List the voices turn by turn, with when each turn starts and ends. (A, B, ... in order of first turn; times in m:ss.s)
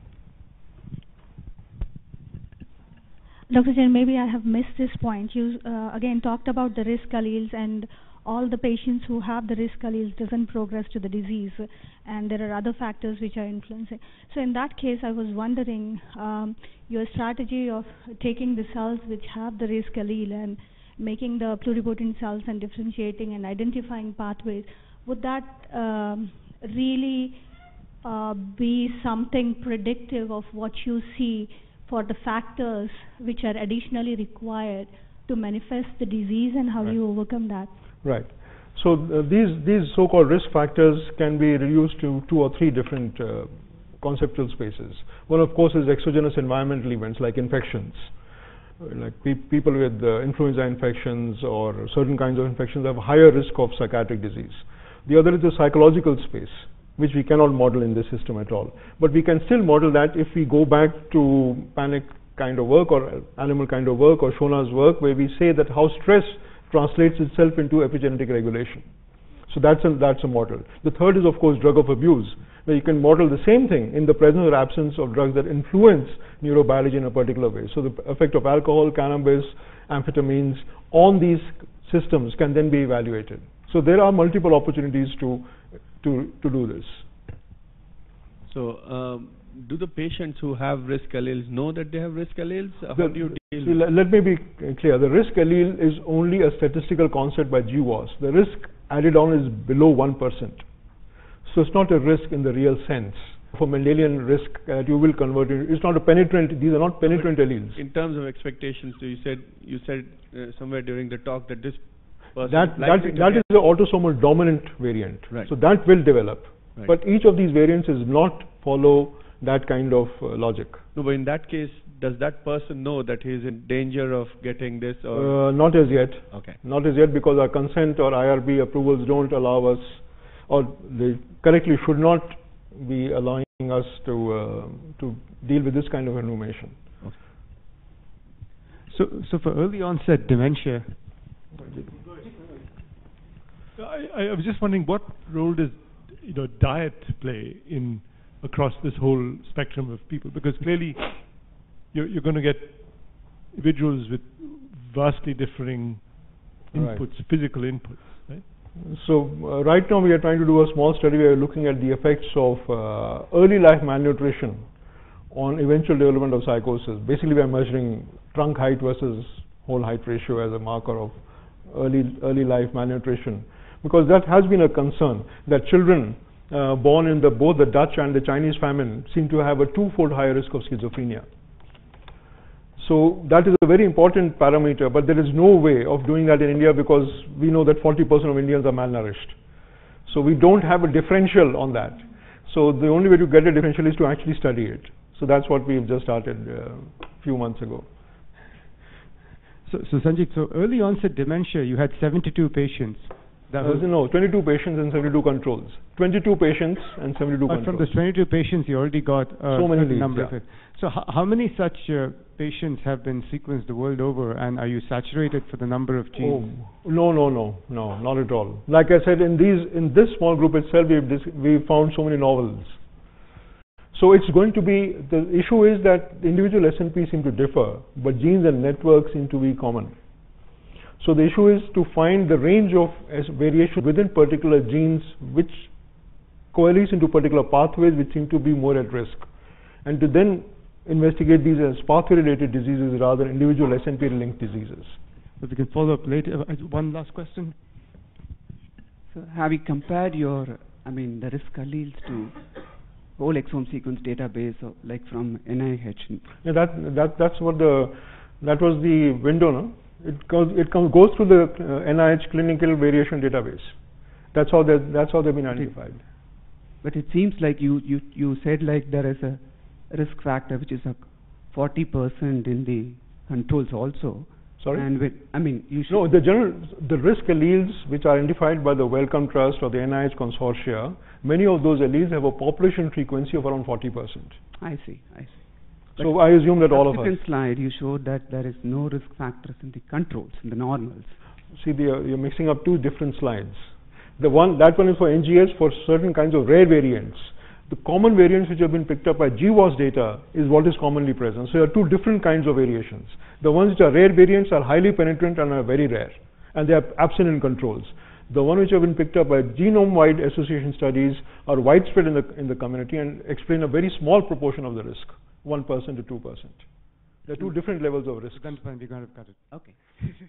0:03.5-0:27.4 A
0:28.0-0:37.7 A
0:38.0-0:48.1 B
0:48.8-1:08.8 B
1:09.5-1:25.5 B
1:26.0-1:27.0 B
1:28.5-1:33.8 C
1:33.0-1:40.6 B
1:41.4-1:47.8 B
1:47.0-1:53.5 C
1:52.5-2:00.8 B
2:00.9-2:05.5 C
2:05.1-2:16.8 B
2:06.3-2:06.6 C
2:18.9-2:21.0 D
2:23.8-2:38.4 E
2:36.7-2:37.0 B
2:38.8-2:44.6 B
2:45.3-2:51.2 B
2:51.7-3:01.2 B
3:02.8-3:09.3 B
3:10.1-3:17.9 B
3:19.6-3:23.9 D
3:23.6-3:27.9 B
3:27.5-3:36.5 D
3:29.5-3:30.4 B
3:36.2-3:42.8 B
3:43.9-3:49.9 B
3:51.0-3:55.7 B
3:56.5-3:59.2 B
3:59.8-4:05.0 B
4:05.4-4:07.6 D
4:09.1-4:12.4 F
4:13.2-4:16.2 F
4:16.4-4:23.7 B
4:24.3-4:26.0 B
4:26.8-4:36.1 F
4:34.6-4:34.8 B
4:35.9-4:44.4 B
4:44.6-4:45.4 F
4:46.0-4:51.2 F
4:46.0-4:47.2 B
4:51.5-4:53.7 B
4:54.2-5:16.6 B
5:17.2-5:18.6 B
5:18.3-5:19.6 D
5:19.5-5:19.8 F